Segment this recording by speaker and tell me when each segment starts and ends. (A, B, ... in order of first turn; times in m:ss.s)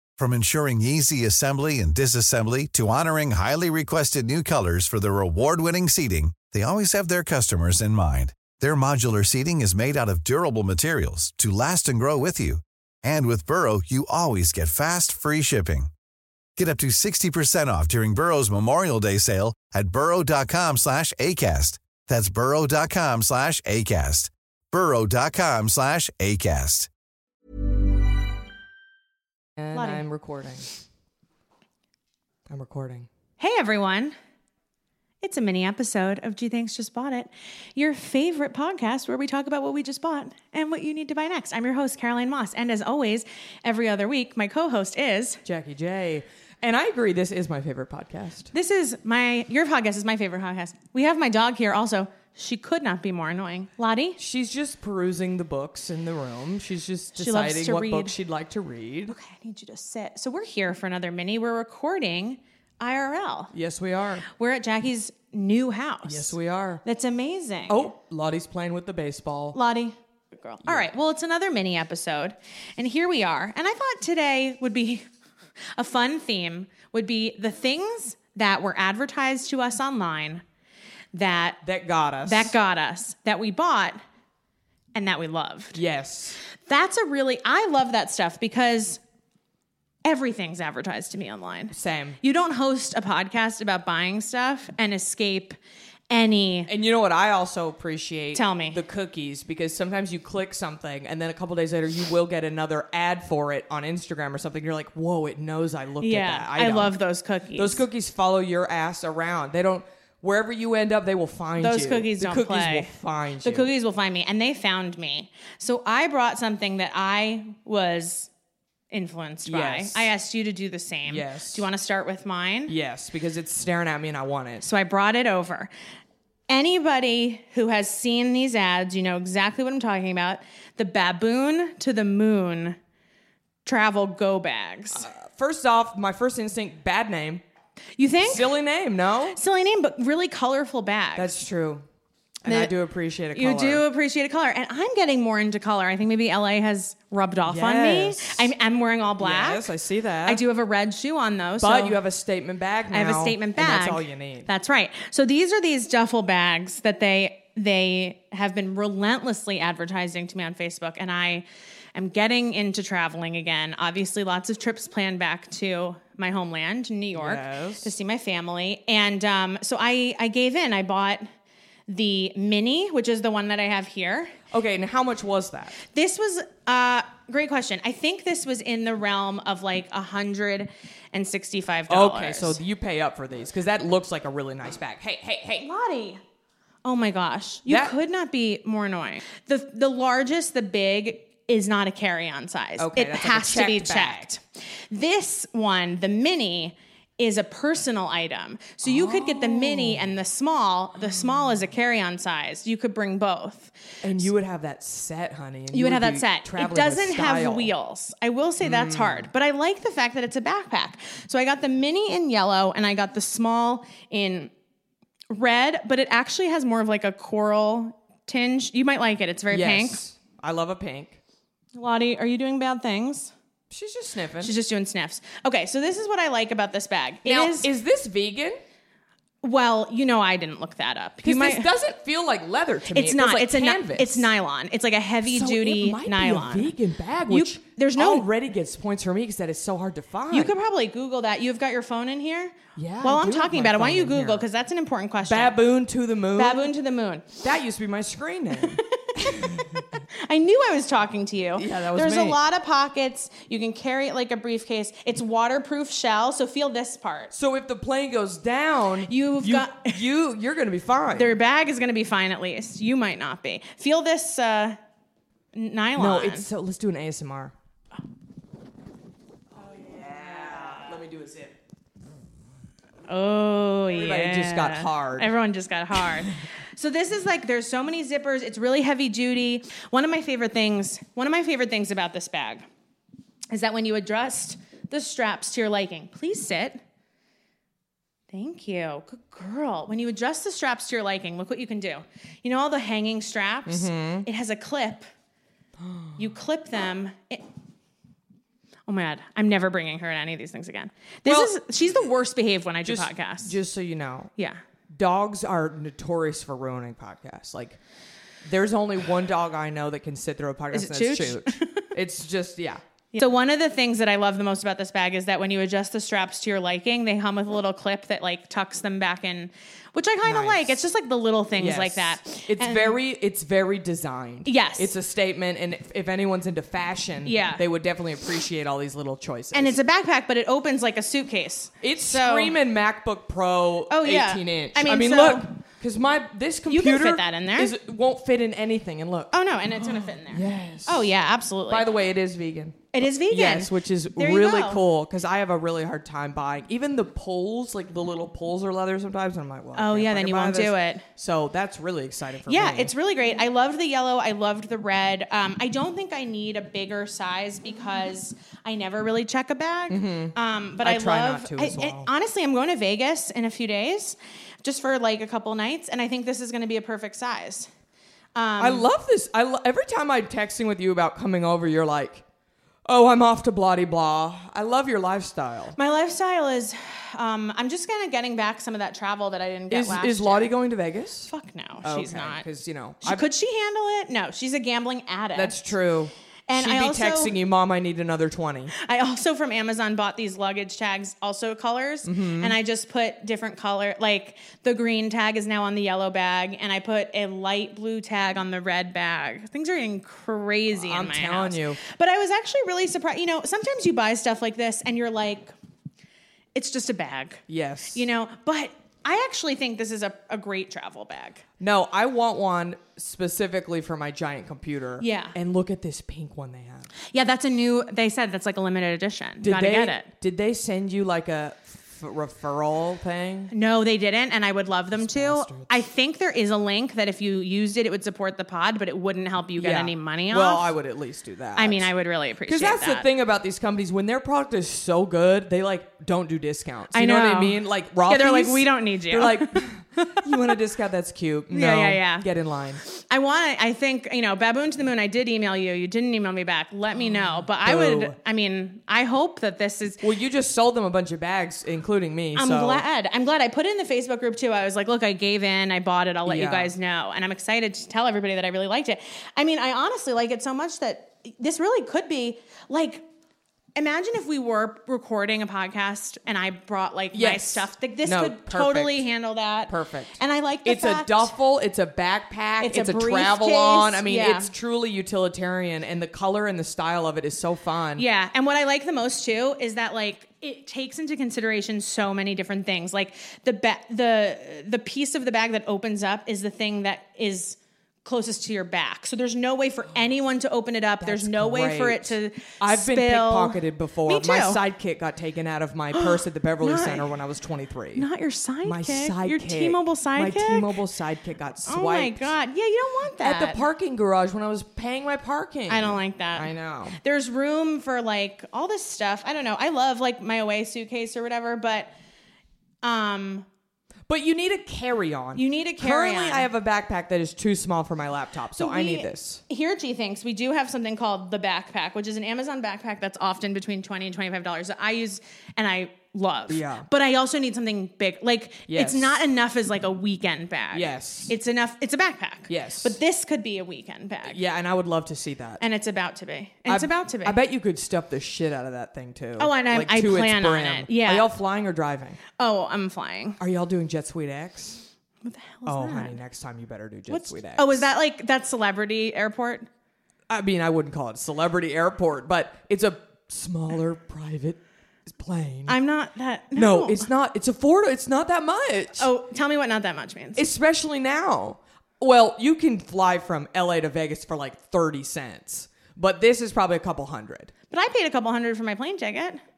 0:00.2-0:15.9 A
0:16.6-0:26.9 A
0:29.6-0:30.7 B
0:29.7-0:30.0 C
0:32.5-0:33.1 B
0:33.4-0:34.2 C
0:35.2-0:45.4 C
0:45.4-0:48.5 B
0:48.5-0:54.2 C
0:54.2-0:59.2 B
0:57.2-0:58.1 C
0:59.1-1:03.5 C
1:03.5-1:04.2 B
1:04.3-1:07.9 C
1:06.1-1:06.8 B
1:07.7-1:09.6 B
1:09.5-1:15.0 C
1:15.8-1:20.4 C
1:21.1-1:21.6 C
1:21.6-1:22.6 B
1:22.2-1:24.0 C
1:25.0-1:25.8 C
1:25.8-1:26.4 B
1:26.6-1:29.0 C
1:30.0-1:35.6 C
1:31.7-1:32.2 B
1:36.1-1:36.7 C
1:36.7-1:47.0 B
1:38.3-1:38.8 C
1:46.0-1:47.8 C
1:47.6-1:53.7 B
1:51.6-1:52.9 C
1:53.4-1:58.3 C
1:58.9-2:02.7 C
1:59.5-2:00.1 B
2:01.1-2:01.7 B
2:02.7-2:04.6 B
2:04.6-2:05.7 C
2:06.5-2:12.8 C
2:13.6-2:15.1 C
2:14.9-2:17.4 B
2:18.0-2:18.5 C
2:18.2-2:19.4 B
2:19.3-2:21.3 C
2:21.2-2:21.8 B
2:22.4-2:23.8 B
2:22.4-2:22.7 C
2:23.3-2:29.7 C
2:27.4-2:28.5 B
2:29.2-2:30.4 B
2:30.3-2:32.0 C
2:31.6-2:34.5 B
2:32.9-2:51.3 C
2:47.2-2:47.9 B
2:51.9-2:54.4 C
2:54.5-2:55.8 B
2:55.9-3:02.6 C
3:01.9-3:05.6 B
3:05.5-3:06.2 C
3:06.8-3:23.7 C
3:07.7-3:07.9 B
3:12.8-3:14.3 B
3:18.8-3:20.1 B
3:24.0-3:27.7 B
3:25.7-3:34.5 C
3:28.6-3:29.3 B
3:35.3-3:40.0 C
3:39.5-3:41.2 B
3:41.8-3:43.3 C
3:43.7-3:44.5 B
3:44.4-3:47.7 C
3:47.2-3:48.6 B
3:49.4-3:51.7 C
3:51.2-3:54.3 B
3:52.9-3:56.7 C
3:55.3-4:00.5 B
3:57.3-3:58.3 C
4:00.3-4:05.6 C
4:02.8-4:04.4 B
4:05.2-4:06.7 B
4:06.4-4:07.4 C
4:07.4-4:09.8 B
4:08.6-4:17.3 C
4:11.6-4:12.4 B
4:17.3-4:21.4 B
4:19.1-4:20.0 C
4:21.2-4:24.8 C
4:25.5-4:26.5 C
4:26.0-4:27.5 B
4:29.6-4:31.6 B
4:30.4-4:30.9 C
4:33.1-4:42.7 C
4:33.9-4:35.3 B
4:43.5-4:46.8 C
4:48.3-4:55.1 C
4:53.7-4:54.3 B
4:55.8-4:56.2 B
4:56.2-4:57.5 C
4:58.9-5:03.6 C
5:01.3-5:01.6 B
5:02.8-5:04.3 B
5:04.9-5:07.8 B
5:08.4-5:12.8 B
5:10.7-5:11.9 C
5:13.1-5:23.0 C
5:20.2-5:20.8 B
5:21.6-5:29.8 B
5:24.4-5:24.9 C
5:27.2-5:27.6 C
5:29.5-5:32.6 C
5:31.8-5:41.1 B
5:33.9-5:35.5 C
5:36.7-5:37.7 C
5:39.3-5:41.9 C
5:41.7-5:52.9 B
5:42.9-5:44.8 C
5:49.8-5:51.1 C
5:52.5-6:07.7 C
5:59.9-6:02.1 B
6:08.4-6:08.9 C
6:08.6-6:12.2 B
6:12.9-6:15.8 B
6:15.8-6:20.5 C
6:19.7-6:21.3 B
6:21.3-6:22.5 C
6:21.8-6:23.2 B
6:23.0-6:25.7 C
6:25.4-6:28.7 B
6:26.5-6:27.4 C
6:28.7-6:45.5 C
6:32.0-6:32.6 B
6:40.7-6:41.8 B
6:46.6-6:51.4 C
6:47.5-6:48.0 B
6:51.6-6:56.9 B
6:55.0-6:55.4 C
6:57.1-7:00.1 C
6:59.4-7:03.5 B
7:03.5-7:10.7 C
7:04.9-7:05.8 B
7:09.6-7:11.9 B
7:11.6-7:13.1 C
7:12.5-7:22.8 B
7:16.9-7:20.5 C
7:21.5-7:22.3 C
7:22.8-7:30.0 C
7:27.0-7:28.2 B
7:30.0-7:32.8 B
7:32.4-7:43.0 C
7:36.3-7:36.7 B
7:43.8-7:51.3 C
7:47.1-7:49.1 B
7:49.7-7:58.0 B
7:52.6-7:54.5 C
7:58.0-8:14.6 C
8:11.0-8:18.1 B
8:15.9-8:17.1 C
8:18.0-8:20.7 C
8:18.6-8:22.3 B
8:21.7-8:23.6 C
8:23.2-8:27.0 B
8:25.7-8:31.9 C
8:32.8-8:33.5 C
8:34.1-8:39.4 B
8:35.4-8:36.5 C
8:38.6-8:54.4 C
8:46.5-8:46.9 B
8:48.7-8:49.2 B
8:50.7-8:51.3 B
8:52.5-8:53.0 B
8:54.3-8:55.6 B
8:55.6-8:57.4 C
8:56.7-9:02.2 B
8:59.4-9:01.3 C
9:02.4-9:03.4 C
9:03.4-9:04.9 B
9:05.2-9:06.2 C
9:05.7-9:07.9 B
9:07.1-9:09.7 C
9:10.3-9:15.8 B
9:15.7-9:17.1 C
9:16.5-9:19.1 B
9:19.0-9:20.4 C
9:20.4-9:27.5 B
9:27.7-9:29.4 C